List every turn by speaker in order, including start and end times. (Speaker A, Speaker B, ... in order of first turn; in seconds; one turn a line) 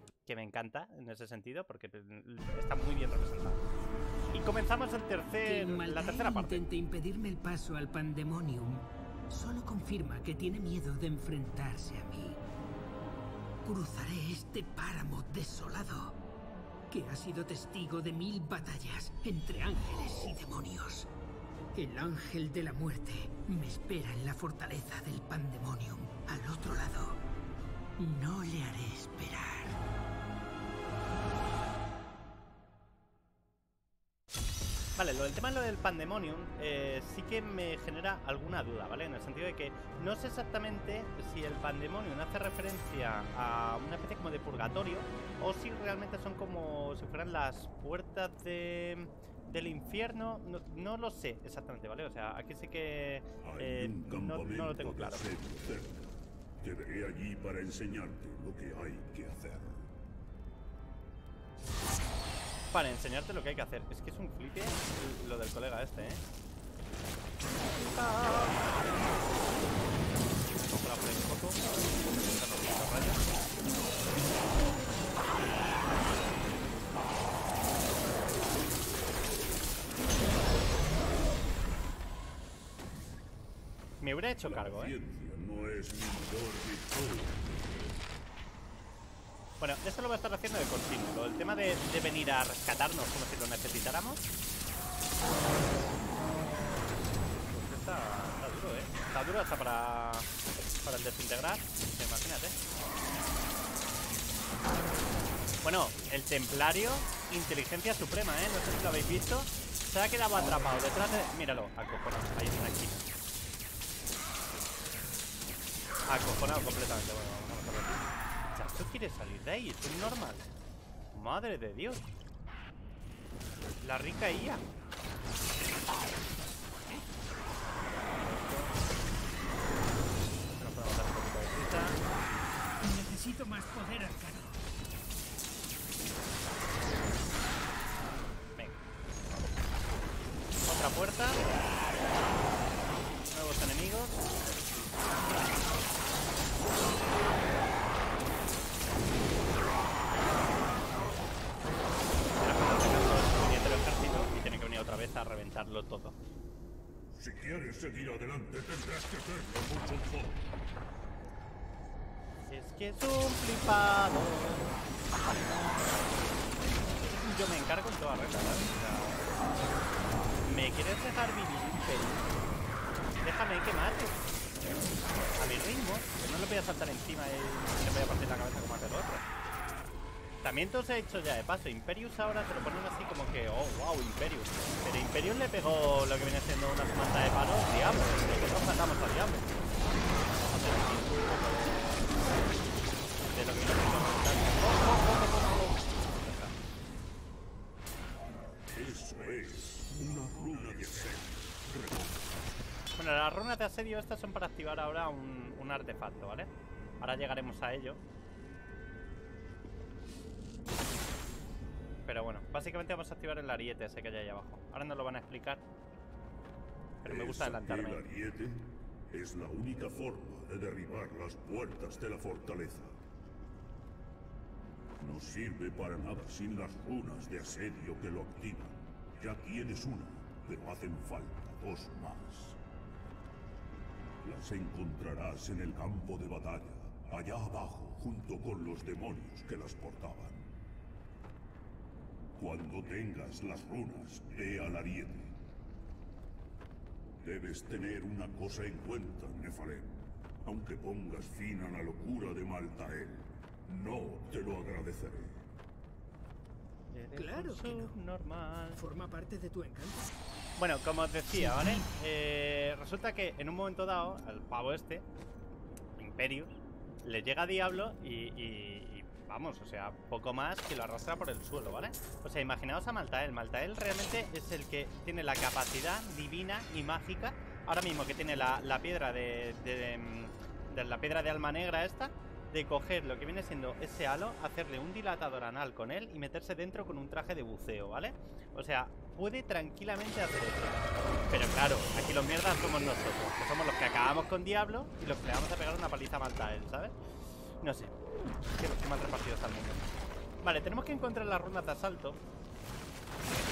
Speaker A: 0.3-3.6
Speaker A: 4.3-6.6
Speaker B: 5.4-12.4
Speaker B: 13.6-16.2
Speaker B: 16.9-21.1
Speaker B: 21.7-27.2
Speaker B: 28.0-29.8
Speaker A: 35.0-55.3
Speaker C: 53.4-59.9
Speaker A: 62.7-66.2
Speaker A: 67.6-69.0
Speaker A: 70.6-73.2
Speaker A: 84.0-85.0
Speaker C: 84.4-88.0
Speaker A: 89.6-94.2
Speaker A: 97.3-100.3
Speaker A: 100.8-102.6
Speaker A: 105.6-113.1
Speaker A: 116.1-120.5
Speaker A: 121.1-122.1
Speaker A: 123.8-124.6
Speaker A: 128.1-128.8
Speaker A: 130.5-132.0
Speaker B: 132.8-134.6
Speaker A: 140.7-141.4
Speaker A: 143.3-144.2
Speaker A: 152.4-156.2
Speaker C: 157.1-160.5
Speaker A: 162.5-164.8
Speaker A: 167.0-169.3
Speaker A: 170.4-172.4
Speaker A: 173.2-174.2
Speaker A: 175.3-179.3
Speaker A: 180.4-189.7
Speaker A: 190.4-192.3
Speaker A: 193.3-196.6
Speaker C: 198.7-202.5
Speaker A: 203.0-208.0
Speaker A: 212.1-215.6
Speaker A: 217.0-218.0
Speaker C: 217.0-223.0
Speaker C: 225.0-232.6
Speaker C: 234.2-240.5
Speaker C: 242.3-245.4
Speaker C: 247.2-255.5
Speaker A: 256.9-258.8
Speaker B: 257.1-258.0
Speaker B: 258.8-260.1
Speaker A: 260.6-265.1
Speaker B: 261.3-261.9
Speaker A: 266.0-297.0
Speaker A: 297.6-297.9
Speaker A: 298.5-299.9
Speaker A: 300.4-302.2